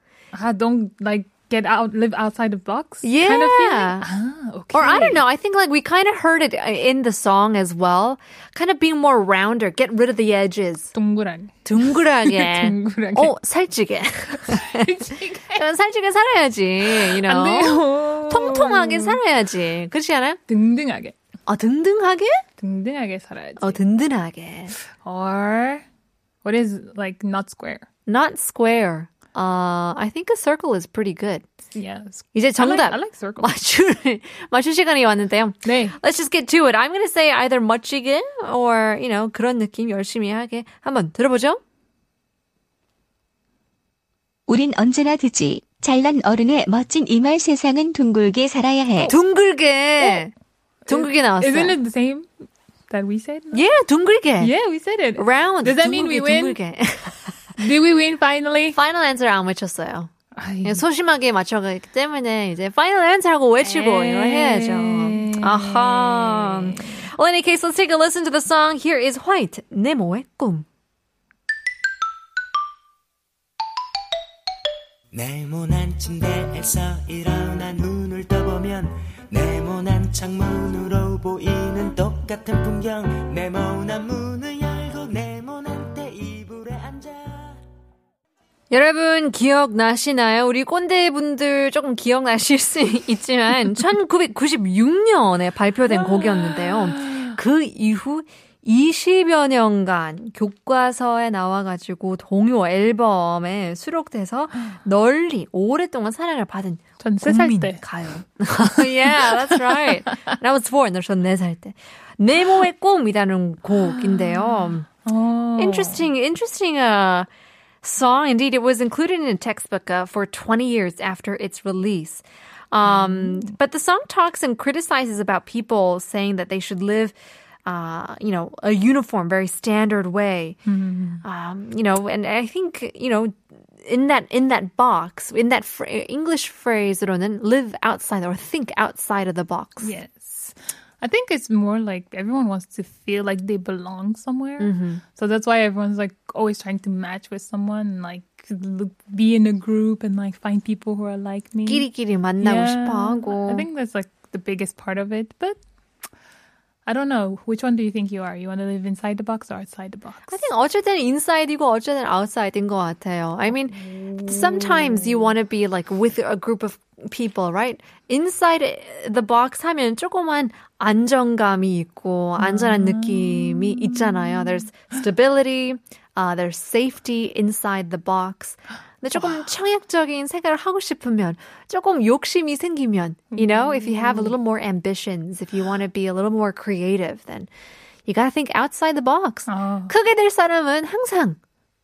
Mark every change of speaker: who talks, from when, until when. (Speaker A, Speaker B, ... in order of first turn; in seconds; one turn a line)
Speaker A: 0.3-5.2
Speaker B: 3.0-4.1
Speaker B: 4.7-10.9
Speaker A: 10.9-13.4
Speaker B: 11.7-14.9
Speaker A: 14.3-15.6
Speaker B: 15.5-20.4
Speaker A: 16.8-19.2
Speaker A: 20.5-21.2
Speaker B: 21.5-22.4
Speaker A: 22.6-23.8
Speaker B: 23.6-24.8
Speaker A: 24.9-25.9
Speaker A: 26.4-27.9
Speaker B: 28.1-31.5
Speaker A: 31.7-33.5
Speaker B: 32.3-41.6
Speaker A: 35.6-36.0
Speaker C: 44.5-49.1
Speaker B: 49.1-50.3
Speaker A: 50.9-53.7
Speaker B: 50.9-51.8
Speaker B: 53.5-54.5
Speaker A: 54.4-56.6
Speaker B: 55.1-57.5
Speaker A: 57.6-58.8
Speaker B: 58.8-60.1
Speaker A: 60.4-60.8
Speaker B: 60.6-70.7
Speaker A: 63.6-67.0
Speaker D: 75.1-87.6
Speaker B: 88.7-114.9
Speaker A: 95.9-97.4
Speaker A: 107.0-107.8
Speaker A: 108.6-110.2
Speaker A: 113.8-116.1
Speaker B: 115.6-117.3
Speaker B: 117.8-127.2
Speaker A: 122.8-123.5
Speaker B: 127.7-130.6
Speaker A: 130.7-131.2
Speaker B: 131.2-139.9
Speaker A: 139.8-151.9
Speaker B: 144.6-145.0
Speaker B: 151.7-153.7
Speaker A: 152.4-155.6
Speaker A: 156.9-160.4
Speaker B: 160.3-187.5
Speaker A: 163.7-165.3
Speaker A: 172.4-174.7
Speaker A: 179.2-179.4
Speaker A: 183.3-184.4
Speaker B: 188.1-191.4
Speaker A: 189.5-189.9